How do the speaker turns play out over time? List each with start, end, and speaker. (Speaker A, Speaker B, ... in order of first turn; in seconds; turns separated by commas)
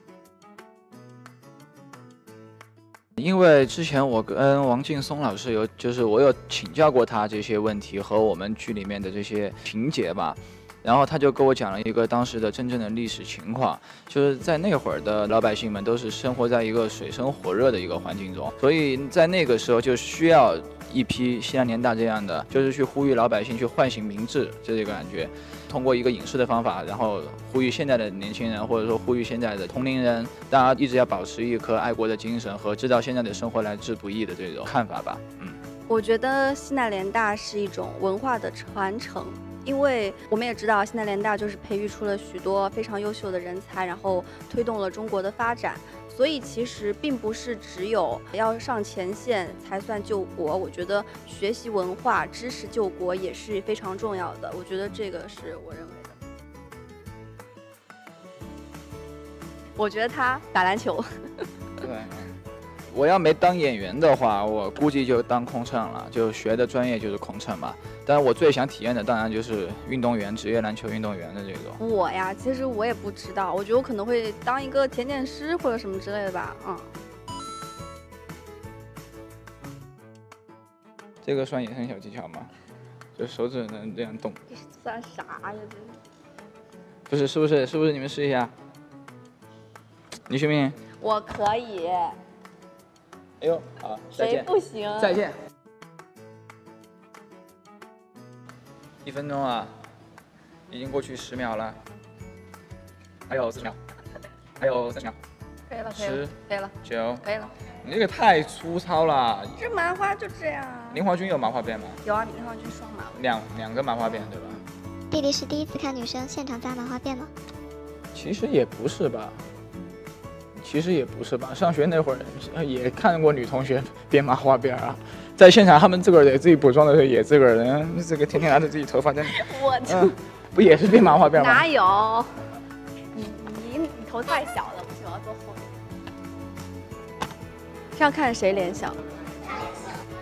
Speaker A: 3.2-35.6, Speaker B: 35.9-56.1, Speaker B: 59.8-61.4, Speaker A: 61.8-62.3, Speaker A: 62.9-71.8, Speaker B: 71.8-76.9, Speaker A: 81.2-82.5, Speaker A: 83.2-84.4, Speaker B: 84.5-86.0, Speaker A: 87.1-88.5, Speaker A: 90.3-90.8, Speaker B: 91.0-92.2, Speaker A: 93.4-95.3, Speaker B: 94.2-95.2, Speaker A: 99.0-99.7, Speaker A: 100.7-101.8, Speaker A: 103.3-103.8, Speaker A: 104.6-105.2, Speaker B: 105.7-107.5, Speaker A: 105.9-107.2, Speaker A: 107.8-109.6, Speaker B: 109.6-111.0, Speaker A: 110.9-112.0, Speaker B: 112.0-113.2, Speaker A: 113.2-114.6, Speaker C: 115.1-117.3, Speaker A: 118.1-119.4, Speaker A: 120.6-131.6, Speaker B: 129.3-130.1, Speaker B: 131.3-132.3, Speaker B: 133.1-135.7, Speaker B: 137.9-139.0